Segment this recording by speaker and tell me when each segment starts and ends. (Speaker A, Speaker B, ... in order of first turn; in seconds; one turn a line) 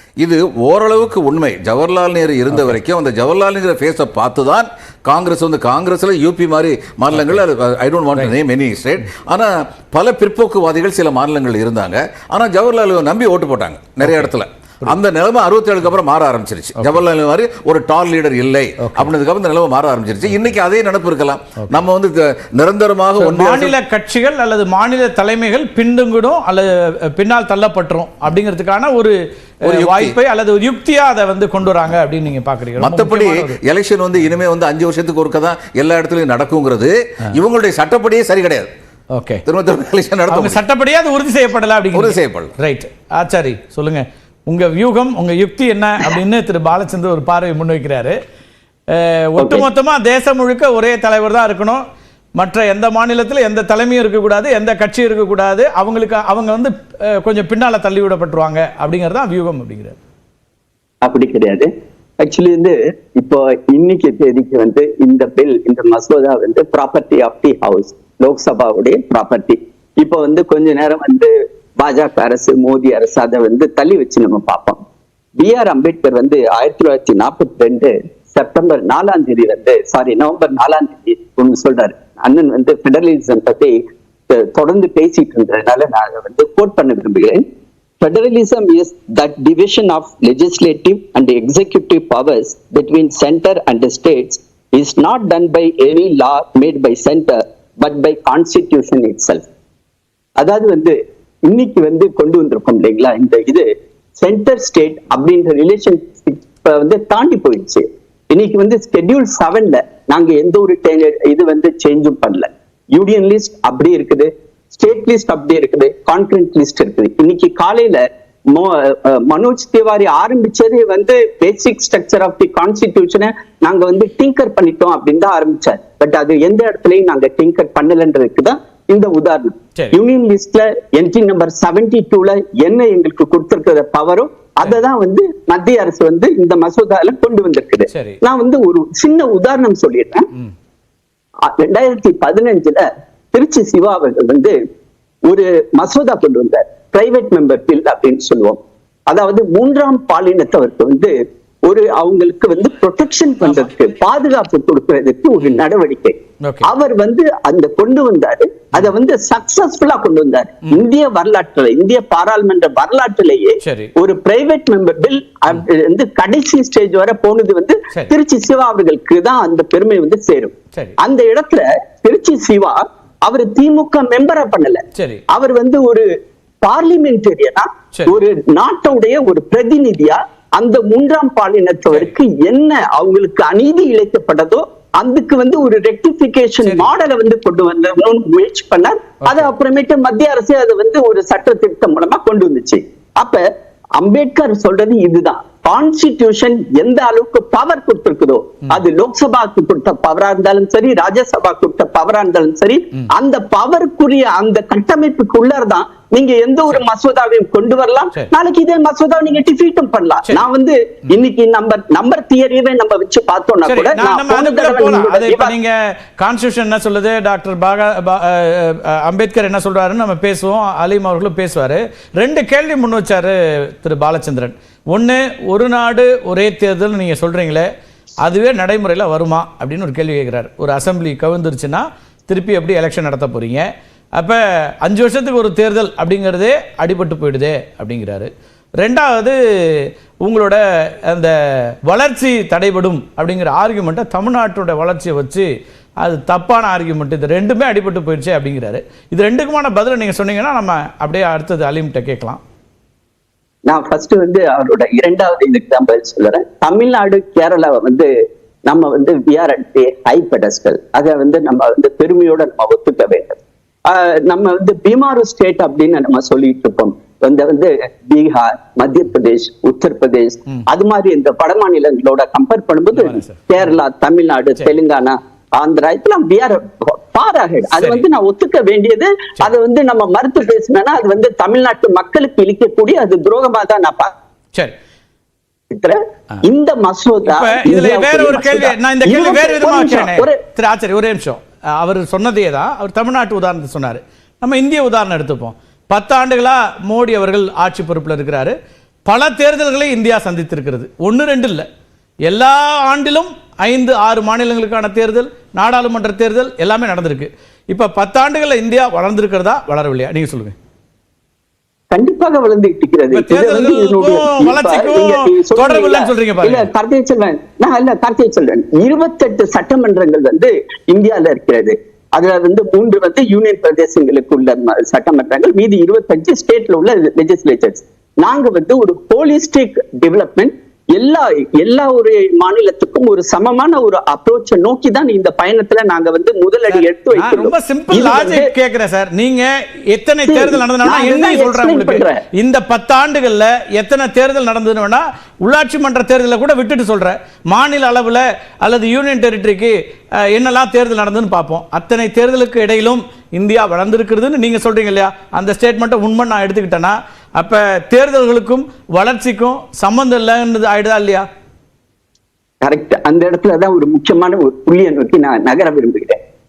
Speaker A: 0.2-23.8
Speaker B: 18.8-19.1
Speaker B: 23.2-33.6
Speaker A: 29.6-30.2
Speaker A: 32.8-38.7
Speaker B: 39.1-39.4
Speaker A: 39.5-40.6
Speaker B: 40.3-48.2
Speaker A: 41.9-42.5
Speaker B: 48.9-51.8
Speaker C: 49.4-49.6
Speaker B: 52.4-60.0
Speaker C: 61.0-61.7
Speaker C: 62.2-74.8
Speaker C: 75.4-83.8
Speaker C: 84.3-87.4
Speaker C: 88.0-99.4
Speaker C: 100.4-103.7
Speaker C: 104.2-140.2
Speaker B: 137.9-138.2
Speaker C: 141.5-144.6
Speaker C: 145.2-151.1
Speaker C: 151.7-176.1
Speaker B: 156.4-156.7
Speaker B: 163.6-163.9
Speaker B: 174.9-175.2
Speaker C: 176.6-193.4
Speaker B: 186.6-186.9
Speaker C: 194.0-215.5
Speaker B: 213.7-227.7
Speaker B: 228.2-238.3
Speaker B: 238.8-245.5
Speaker B: 246.0-252.4
Speaker C: 253.7-258.1
Speaker C: 258.7-284.1
Speaker B: 272.9-273.5
Speaker B: 277.7-278.1
Speaker C: 285.7-290.4
Speaker B: 287.3-301.7
Speaker B: 302.3-310.6
Speaker C: 311.9-338.5
Speaker B: 313.1-316.7
Speaker B: 336.7-361.2
Speaker C: 340.3-342.2
Speaker C: 362.6-366.2